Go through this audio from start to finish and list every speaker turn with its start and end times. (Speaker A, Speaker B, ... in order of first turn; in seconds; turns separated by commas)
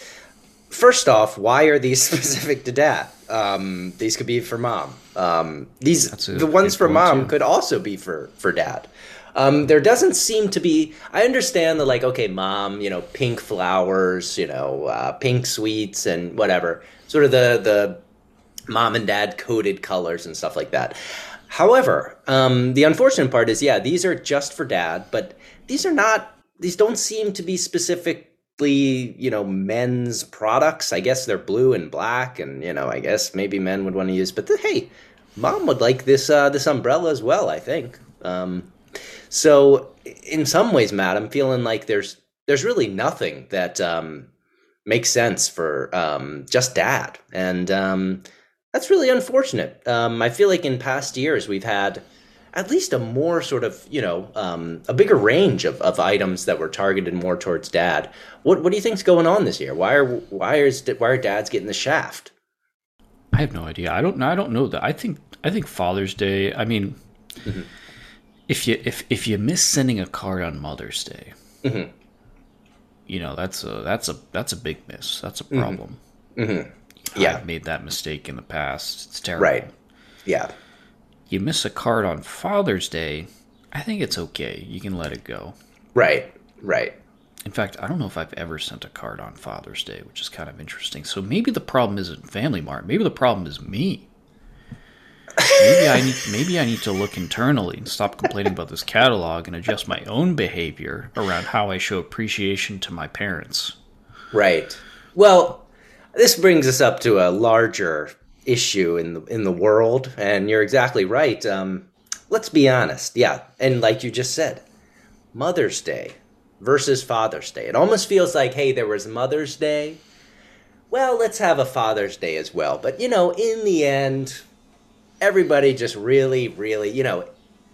Speaker A: 0.7-18.0, Speaker B: 6.1-7.3, Speaker A: 18.7-21.0, Speaker A: 21.5-38.7, Speaker A: 39.3-44.3, Speaker A: 44.9-48.2, Speaker A: 48.7-52.0, Speaker A: 52.5-62.3, Speaker B: 63.3-67.0, Speaker B: 68.5-71.3, Speaker A: 71.6-71.9, Speaker B: 73.1-76.0, Speaker A: 75.5-75.8, Speaker A: 76.3-77.4, Speaker B: 77.0-79.7, Speaker A: 79.4-79.7, Speaker A: 80.2-80.5, Speaker B: 81.3-85.5, Speaker A: 85.9-87.0, Speaker B: 87.4-94.1, Speaker A: 95.4-96.0, Speaker B: 95.5-103.8, Speaker A: 104.3-114.6, Speaker A: 115.3-120.0, Speaker A: 120.9-124.4, Speaker A: 125.2-127.2